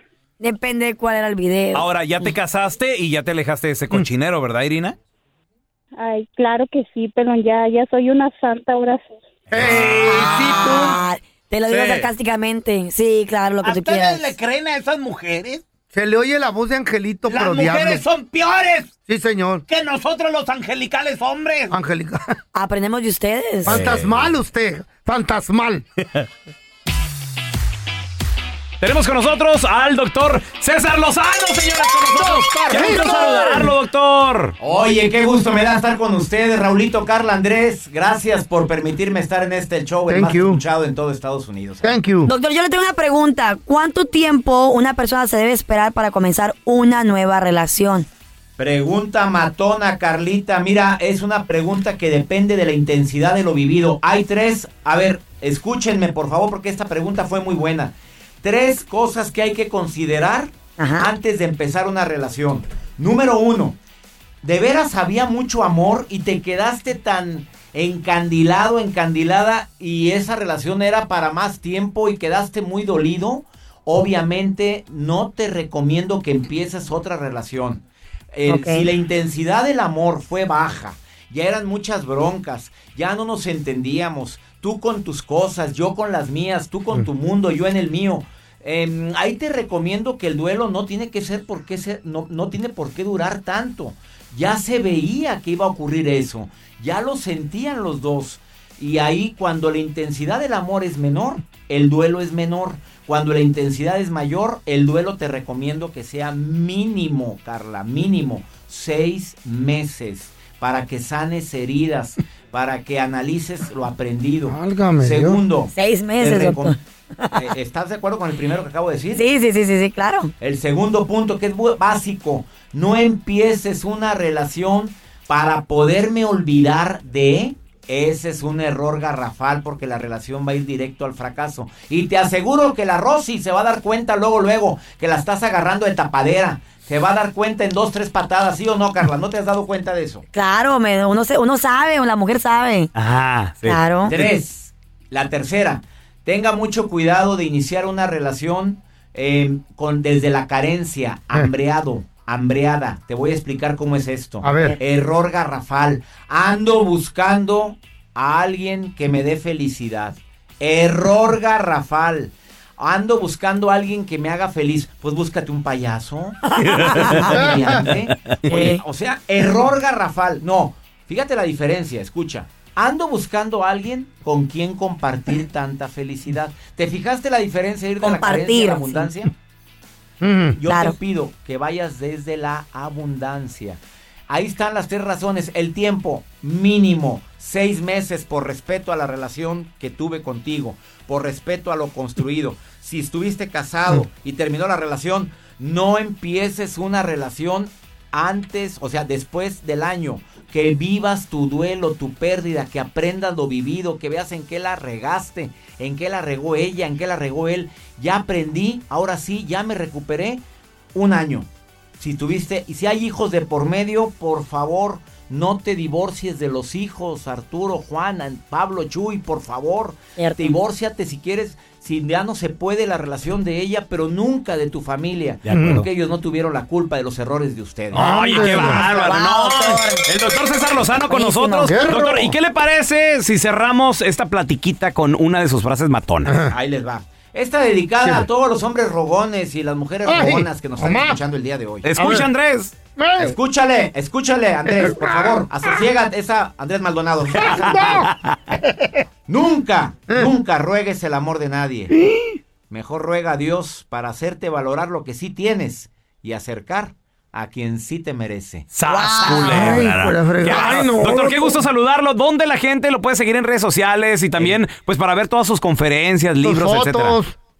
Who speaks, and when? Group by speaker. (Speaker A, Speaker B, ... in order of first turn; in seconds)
Speaker A: 0.4-1.9, 10.1-14.3, 22.5-23.8, 42.2-48.1, 60.8-61.1, 78.5-78.9, 115.7-117.5, 119.1-120.3, 140.3-142.9, 143.6-144.2, 166.5-167.3, 168.4-168.8, 178.0-179.1, 180.7-180.9, 220.2-220.6, 228.6-230.0, 231.1-231.8, 258.9-259.5
Speaker B: 1.7-5.0, 9.5-9.8, 23.6-24.3, 28.8-34.5, 142.9-143.8, 225.4-225.9, 227.9-236.4, 241.8-242.7, 247.7-248.1, 258.7-267.2
Speaker C: 6.0-9.2
Speaker D: 9.5-11.0, 15.9-18.0, 19.1-19.6, 21.7-22.3, 23.6-25.9, 32.1-33.7, 40.1-40.6, 41.8-42.3, 114.5-115.4, 154.4-154.8, 167.4-167.6, 180.2-180.6, 225.5-225.8, 227.9-228.9, 231.6-232.3, 236.2-236.5, 238.0-238.3, 240.0-241.2, 241.9-242.3, 243.0-243.3, 244.6-245.5, 247.3-248.1, 248.6-249.0, 251.9-252.4, 259.3-261.6, 266.4-267.4
Speaker E: 11.7-12.1, 13.6-15.6, 17.3-18.9, 19.7-21.7
Speaker F: 34.6-41.9, 48.6-63.8, 64.4-116.8, 117.3-119.2, 120.4-140.2, 144.1-166.4, 166.9-179.3, 180.6-210.4, 210.9-228.5, 236.5-241.9, 243.2-248.1, 249.3-251.9, 252.7-258.7, 259.2-259.8